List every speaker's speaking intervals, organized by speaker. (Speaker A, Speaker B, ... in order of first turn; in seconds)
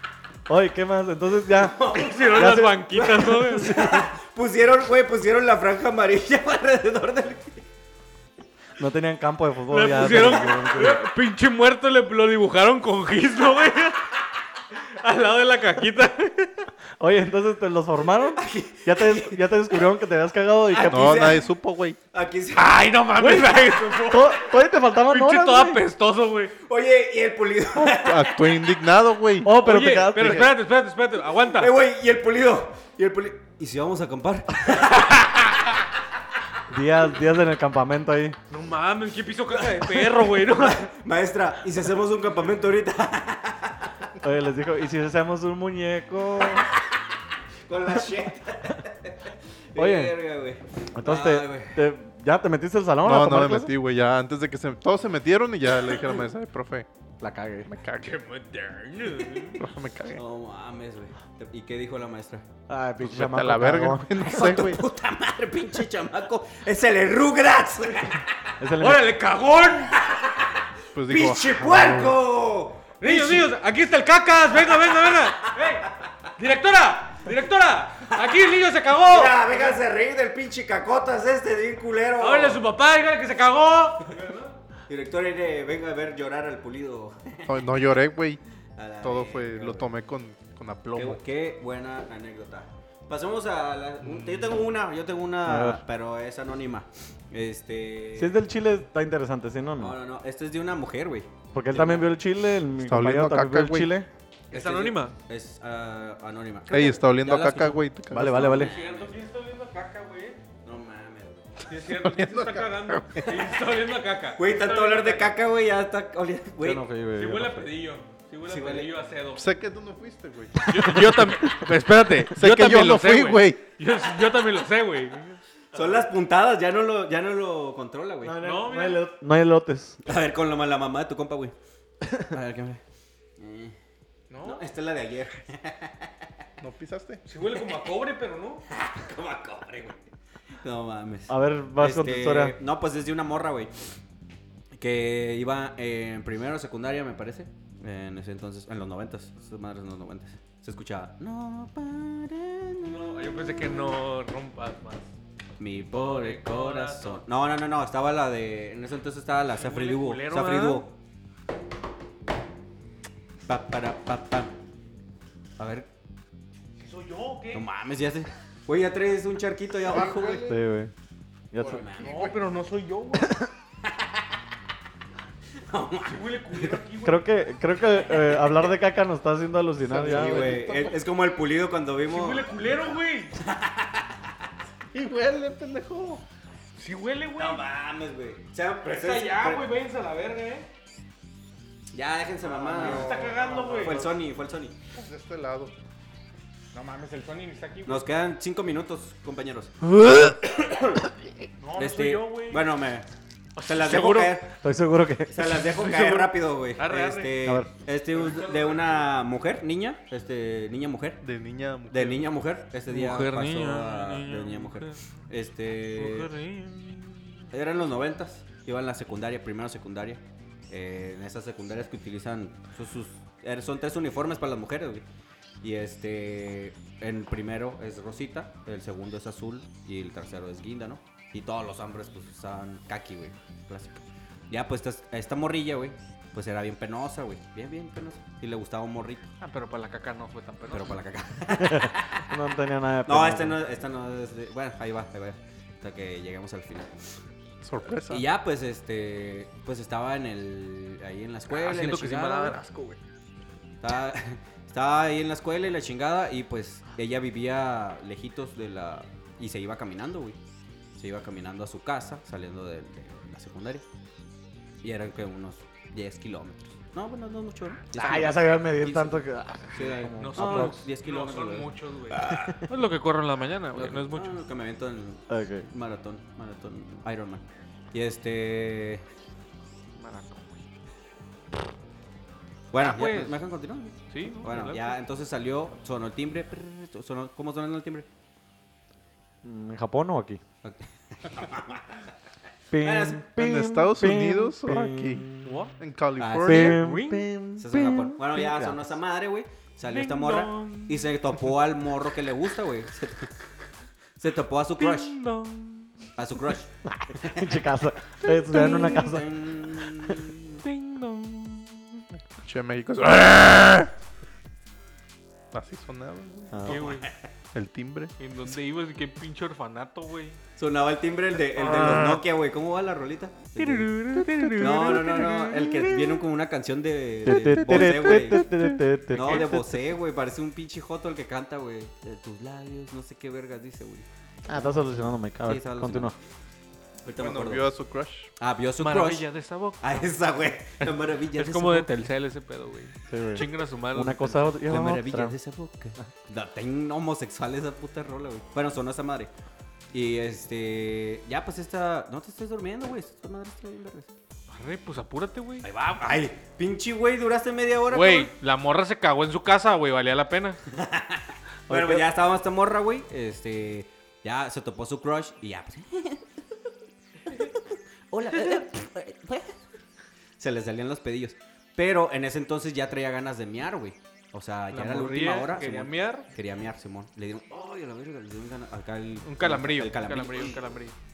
Speaker A: 0.5-4.1, 8.8-11.0, 17.0-21.3, 23.2-25.8, 29.4-30.5, 36.7-38.4, 44.2-46.7, 49.8-50.2, 51.0-53.7, 57.2-57.7, 62.7-64.1, 68.6-69.1, 95.4-95.8, 98.2-100.0, 101.5-104.1, 108.1-108.7, 116.6-117.7, 121.2-121.4, 128.2-130.0, 141.3-142.6, 170.4-170.9, 171.5-171.9, 177.0-180.6, 204.6-205.6, 207.4-207.7, 241.6-243.6, 267.9-270.8, 275.3-275.7, 289.4-290.4, 292.7-295.5, 296.4-298.8, 307.1-309.4, 316.5-316.8, 327.2-329.8, 334.5-336.1, 343.1-345.4, 361.7-362.1
Speaker B: 1.6-7.6, 18.4-19.4, 20.7-21.5, 22.1-22.8, 26.6-28.5, 31.5-35.1, 39.6-44.1, 47.7-51.8, 60.1-62.4, 64.2-68.2, 70.0-70.5, 71.1-73.5, 79.1-82.6, 84.9-87.6, 88.8-89.9, 90.9-98.3, 99.8-102.1, 104.5-109.1, 110.6-111.6, 114.3-116.8, 118.5-118.9, 125.7-128.4, 130.0-131.5, 132.2-132.8, 133.4-133.8, 134.4-136.1, 138.7-140.0, 140.6-143.7, 144.7-153.3, 155.6-160.9, 163.4-164.5, 165.6-165.9, 167.5-170.4, 171.6-172.3, 173.8-174.1, 175.6-176.8, 178.0-178.5, 180.0-182.6, 183.3-184.3, 187.3-189.7, 191.9-194.8, 197.8-199.8, 200.3-201.0, 201.8-203.1, 203.6-204.5, 205.3-211.2, 211.9-216.3, 217.5-225.0, 225.6-239.3, 240.7-242.2, 243.1-247.0, 248.1-252.6, 253.8-260.4, 260.9-263.8, 264.8-272.6, 273.7-279.0, 282.7-288.1, 290.6-292.0, 292.8-293.2, 296.2-296.8, 297.6-303.3, 304.2-305.1, 306.2-307.6, 308.6-310.6, 316.6-317.3, 320.6-323.9, 324.6-328.5, 329.1-336.1, 337.0-337.7, 338.4-339.3, 339.8-341.9, 344.6-349.3, 349.9-354.1, 355.6-358.3, 360.7-366.2, 367.3-369.6, 370.4-380.6
Speaker C: 1.9-3.9, 9.7-14.1, 15.0-16.7, 22.5-24.5, 25.1-26.5, 29.5-31.7, 38.5-40.9, 58.0-59.6, 68.8-70.0, 73.0-79.8, 82.2-84.5, 104.5-105.1, 108.5-110.4, 111.7-115.3, 117.2-119.5, 120.6-125.9, 128.4-129.1, 134.3-134.6, 137.2-138.6, 152.8-155.1, 155.9-157.2, 159.6-160.8, 166.8-167.6, 172.0-173.4, 176.1-177.3, 182.1-183.3, 186.8-187.6, 188.8-190.7, 192.5-194.1, 196.7-198.0, 201.6-202.7, 203.6-204.4, 205.7-207.3, 208.1-209.1, 212.9-215.0, 215.9-217.4, 239.4-241.0, 251.5-253.0, 270.2-274.4, 280.0-280.4, 282.8-283.4, 284.1-285.0, 295.4-295.7, 296.6-297.3, 299.8-301.1, 304.8-305.9, 308.5-309.1, 310.6-312.0, 316.7-317.1, 318.2-320.4, 321.8-322.1, 323.6-326.1, 329.2-329.5, 338.8-340.2, 340.8-344.5, 354.5-355.7, 357.9-360.6, 374.7-376.3, 379.2-380.9
Speaker D: 20.9-22.0, 27.8-29.5, 53.0-56.9, 57.7-58.2, 59.6-60.2, 63.0-64.8, 70.9-72.2, 87.5-88.4, 89.0-91.2, 102.8-103.9, 106.7-108.6, 111.9-113.3, 119.3-121.2, 122.3-123.6, 136.6-137.2, 169.8-170.6, 171.7-172.4, 179.9-181.0, 184.9-186.2, 192.8-193.3, 194.9-195.7, 211.2-212.3, 247.6-248.2, 293.4-296.8, 312.4-313.9, 315.5-316.7, 317.5-318.1, 324.3-325.1, 327.3-328.8, 337.1-338.3